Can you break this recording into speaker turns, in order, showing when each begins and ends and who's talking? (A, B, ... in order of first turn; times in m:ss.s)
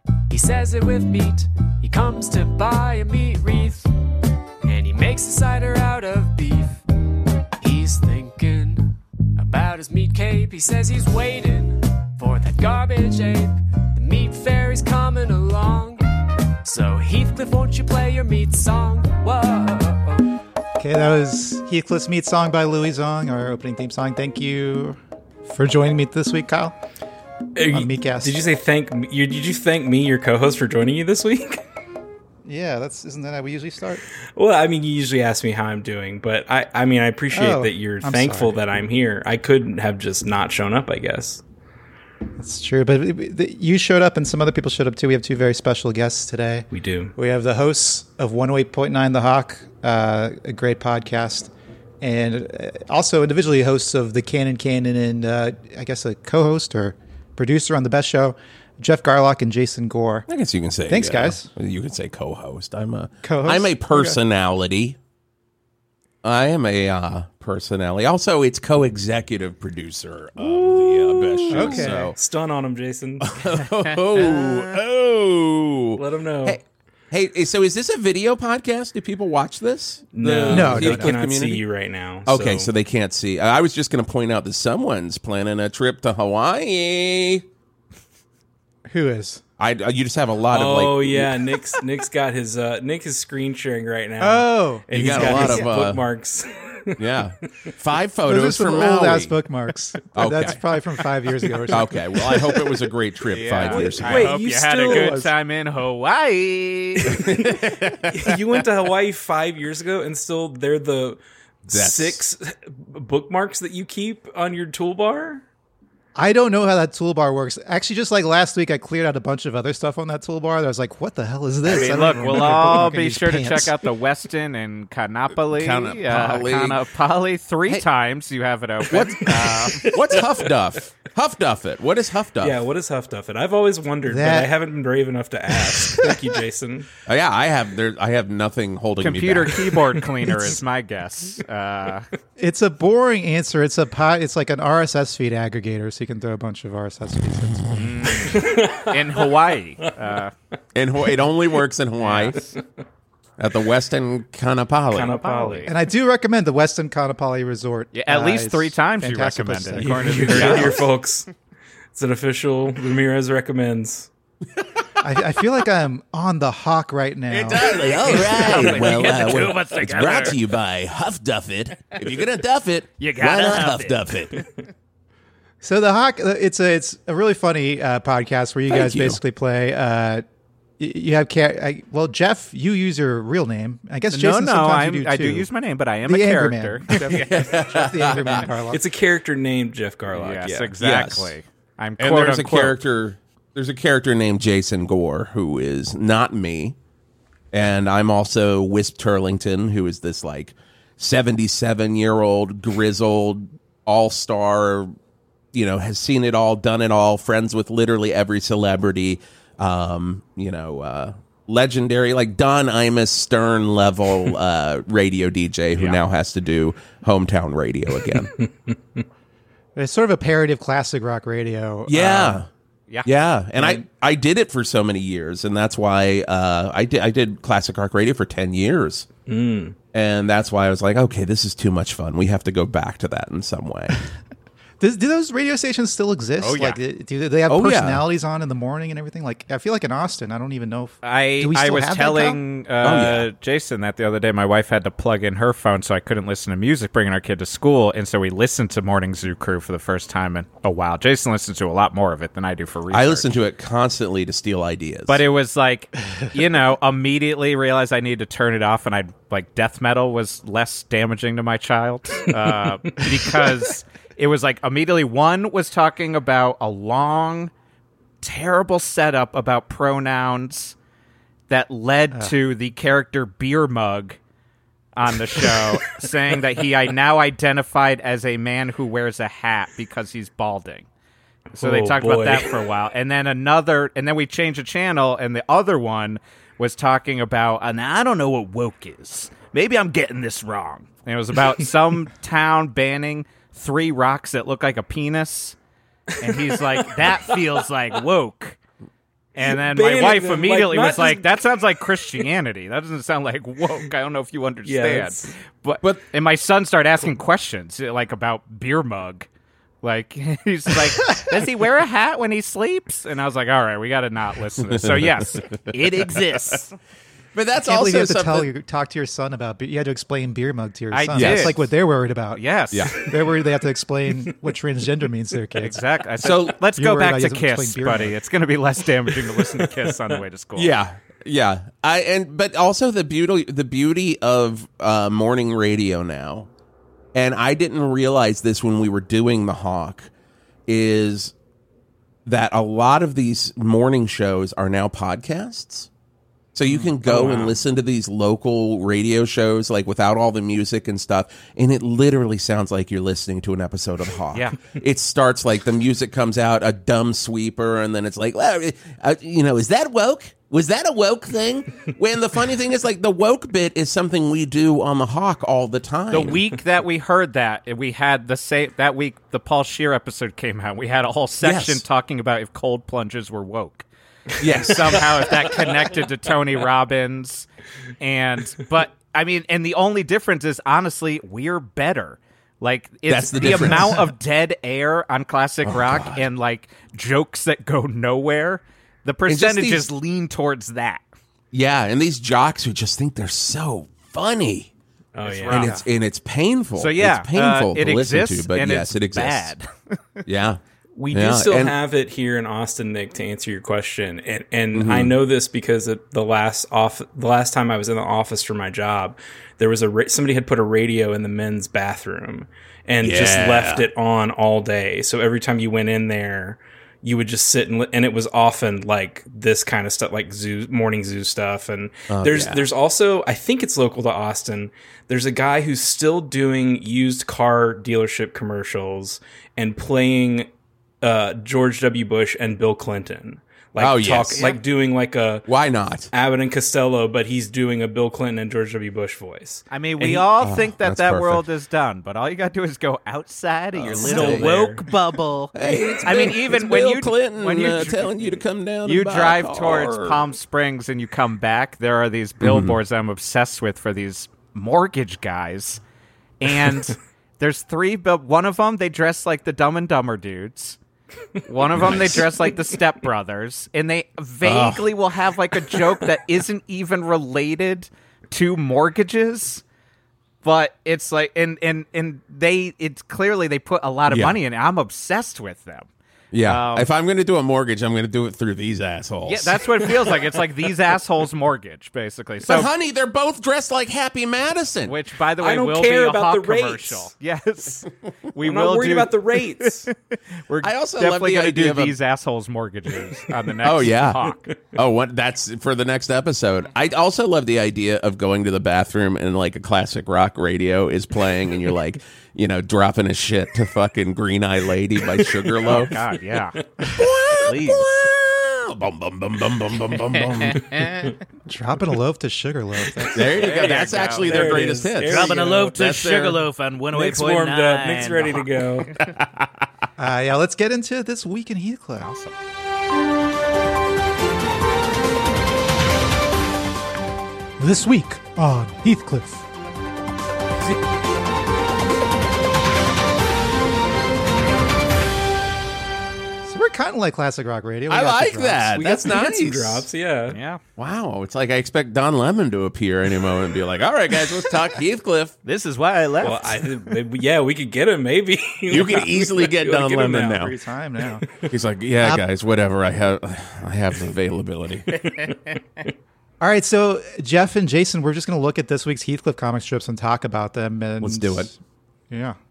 0:00.3-0:03.9 A
0:04.6-0:06.8 A
0:07.6-0:16.0 A
0:16.6-0:20.3 A
0:20.8-0:26.8 B
0:27.6-0:31.6 C
0:27.7-0:28.4 B
0:32.4-0:34.0 B
0:34.3-0:41.4 C
0:37.3-0:38.6 B
0:42.4-0:46.6 B
0:46.7-0:47.1 C
0:47.2-1:00.2 B
1:00.3-1:05.0 D
1:00.9-1:01.4 B
1:03.2-1:04.2 B
1:06.2-1:12.2 D
1:10.5-1:13.4 C
1:11.5-1:12.1 B
1:13.2-1:16.6 D
1:13.7-1:14.6 E
1:16.0-1:16.6 C
1:17.1-1:21.6 D
1:20.1-1:22.7 C
1:20.5-1:21.2 B
1:22.2-1:27.4 D
1:28.9-1:29.4 B
1:29.6-1:31.4 D
1:30.5-1:37.0 C
1:34.2-1:35.6 B
1:34.9-1:36.0 D
1:37.0-1:39.3 D
1:38.2-1:41.9 B
1:40.1-1:40.6 D
1:41.4-1:42.9 C
1:41.7-1:44.3 D
1:43.2-1:47.3 E
1:43.6-1:45.3 C
1:44.9-1:45.2 D
1:47.0-1:55.4 C
1:47.0-1:48.3 D
1:51.7-1:52.2 D
1:56.1-2:03.7 B
2:01.6-2:09.9 E
2:05.5-2:06.8 D
2:08.9-2:12.6 D
2:09.4-2:10.6 C
2:12.4-2:16.9 C
2:14.0-2:14.5 B
2:17.0-2:19.7 D
2:19.0-2:22.1 E
2:20.2-2:20.5 C
2:22.4-2:27.8 B
2:27.7-2:30.3 E
2:28.1-2:29.2 C
2:30.7-2:32.4 D
2:32.0-2:32.5 E
2:33.4-2:35.2 D
2:34.9-2:35.7 C
2:35.1-2:35.7 E
2:35.7-2:40.9 B
2:37.9-2:40.8 E
2:39.8-2:41.3 C
2:41.9-2:44.1 C
2:45.0-2:48.2 B
2:47.3-2:54.4 D
2:48.1-2:50.4 E
2:53.0-2:54.1 E
2:55.6-3:00.2 B
2:58.7-2:59.2 D
3:00.8-3:05.5 B
3:04.1-3:07.0 E
3:06.0-3:08.8 B
3:07.1-3:08.5 D
3:08.7-3:10.7 C
3:10.1-3:12.8 E
3:10.8-3:11.3 D
3:12.0-3:16.8 D
3:17.5-3:24.9 D
3:25.5-3:38.4 D
3:35.7-3:36.0 E
3:39.8-3:42.4 B
3:41.9-3:42.5 D
3:43.0-3:49.1 D
3:43.6-3:43.8 B
3:49.3-3:49.8 C
3:49.9-3:54.0 D
3:54.8-4:02.4 B
3:56.4-3:56.8 E
3:57.5-3:58.0 D
4:01.0-4:13.4 E
4:02.8-4:03.3 D
4:12.9-4:15.2 D
4:15.1-4:27.5 E
4:28.2-4:30.7 E
4:31.5-4:34.2 E
4:34.9-4:40.9 E
4:41.5-4:55.6 E
4:41.6-4:42.6 C
4:56.2-4:58.6 E
4:59.3-5:09.3 E
4:59.4-5:01.3 C
5:04.6-5:05.3 C
5:09.8-5:16.8 E
5:14.7-5:15.5 D
5:17.3-5:18.5 D
5:17.6-5:22.4 B
5:20.9-5:21.6 E
5:21.2-5:21.6 D
5:22.3-5:23.0 E
5:22.7-5:23.0 D
5:22.9-5:28.1 B
5:25.6-5:30.7 E
5:26.2-5:26.6 D
5:30.6-5:36.5 D
5:37.1-5:40.1 D
5:40.7-5:41.3 D
5:42.2-5:45.9 D
5:46.5-6:06.4 D
5:46.7-5:47.5 E
5:47.1-5:47.6 C
5:54.3-5:54.6 E
6:06.1-6:13.8 E
6:11.4-6:11.8 D
6:14.4-6:15.4 D
6:14.4-6:17.5 E
6:18.0-6:31.0 E
6:23.1-6:24.1 D
6:25.6-6:26.2 D
6:29.3-6:29.9 D
6:31.5-6:34.7 D
6:35.1-6:35.7 C
6:35.2-6:35.8 E
6:35.5-6:35.8 B
6:35.5-6:39.5 D
6:36.8-6:40.2 E
6:40.2-6:40.6 D
6:41.0-7:10.5 C
6:41.1-6:41.7 D
6:44.7-6:45.1 D
6:53.0-6:53.8 D
7:02.1-7:02.6 D
7:11.0-7:15.4 C
7:13.8-7:14.5 D
7:15.5-7:16.1 D
7:16.1-7:19.6 C
7:19.7-7:35.8 E
7:20.0-7:21.4 D
7:23.7-7:24.5 D
7:24.0-7:24.8 C
7:25.5-7:30.2 D
7:32.4-7:32.8 D
7:36.4-7:40.8 E
7:41.4-7:49.6 E
7:41.7-7:42.2 D
7:44.4-7:44.9 D
7:50.4-7:55.9 E
7:54.1-7:54.3 D
7:56.3-8:00.2 D
7:56.4-7:56.9 E
7:59.2-8:02.7 E
8:02.5-8:04.9 D
8:04.9-8:14.4 E
8:05.4-8:07.1 C
8:08.4-8:09.9 C
8:10.6-8:12.0 D
8:13.6-8:26.0 D
8:25.6-8:27.9 E
8:26.9-8:30.8 D
8:30.0-8:31.2 E
8:31.4-8:33.4 B
8:33.0-8:35.8 C
8:33.1-8:36.4 D
8:33.3-8:39.2 E
8:36.9-8:39.0 C
8:40.0-8:42.1 B
8:42.0-8:42.3 E
8:47.6-8:49.4 B
8:56.4-8:58.8 B
8:57.9-8:59.9 D
8:58.7-9:00.4 C
9:00.3-9:00.6 E
9:00.8-9:05.3 D
9:05.4-9:06.7 E
9:06.2-9:10.5 C
9:08.7-9:10.5 D
9:10.5-9:11.2 B
9:11.2-9:11.5 C
9:11.5-9:15.0 D
9:14.9-9:15.4 C
9:16.4-9:21.6 B
9:21.0-9:21.5 D
9:22.1-9:22.4 B